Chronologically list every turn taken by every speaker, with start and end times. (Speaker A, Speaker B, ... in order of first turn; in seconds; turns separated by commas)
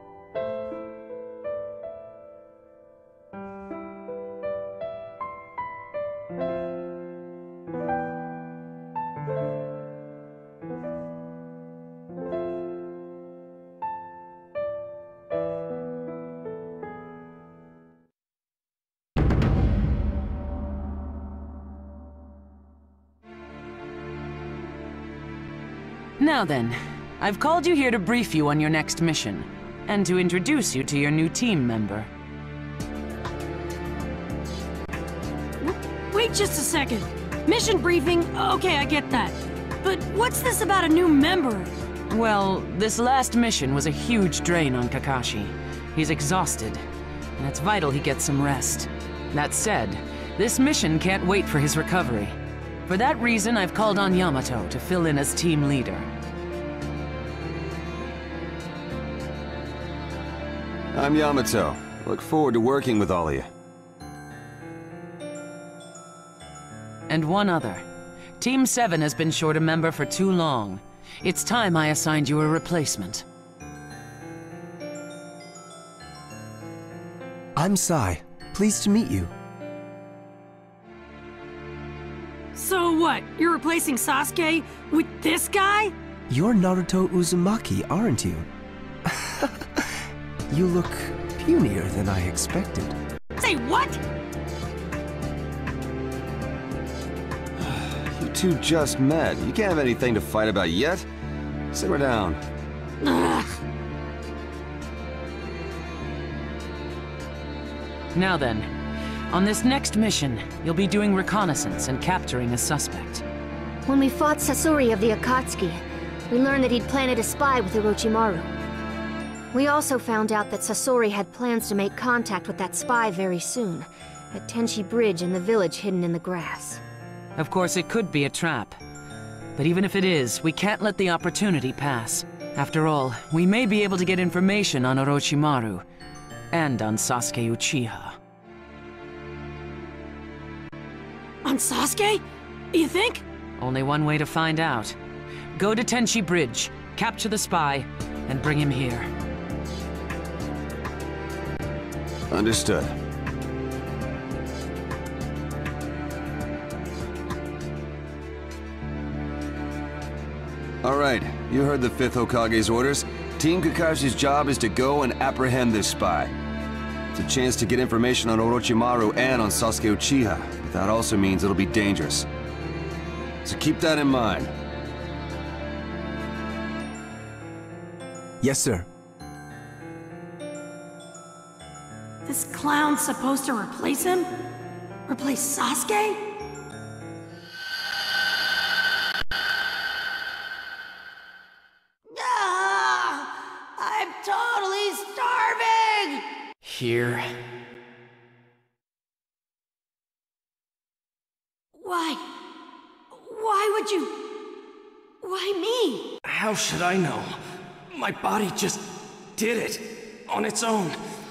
Speaker A: 26.2-32.1, Speaker B: 35.6-41.7, Speaker A: 42.1-46.8, Speaker A: 47.4-56.1, Speaker C: 60.9-63.5, Speaker A: 67.1-67.8, Speaker A: 68.4-73.2, Speaker D: 77.5-79.3, Speaker B: 82.5-85.9, Speaker D: 86.3-88.5, Speaker D: 89.0-89.9, Speaker D: 90.5-93.0, Speaker B: 93.4-94.0, Speaker C: 97.6-101.0, Speaker C: 101.7-102.4, Speaker B: 103.0-103.5, Speaker A: 108.1-108.7, Speaker A: 109.3-113.2, Speaker E: 113.9-118.5, Speaker E: 119.5-126.8, Speaker A: 127.4-128.8, Speaker A: 129.6-135.8, Speaker A: 136.5-138.2, Speaker B: 141.4-143.2, Speaker A: 143.6-144.9, Speaker A: 145.6-149.1, Speaker C: 152.3-152.9, Speaker C: 160.8-166.3, Speaker C: 167.1-172.3, Speaker C: 173.4-174.5, Speaker D: 178.4-178.9, Speaker B: 182.2-184.3, Speaker B: 185.1-186.2, Speaker B: 192.1-196.2, Speaker F: 196.6-197.3, Speaker B: 201.8-202.2, Speaker B: 203.1-204.2, Speaker B: 205.2-206.1, Speaker F: 206.2-207.4, Speaker F: 207.9-211.0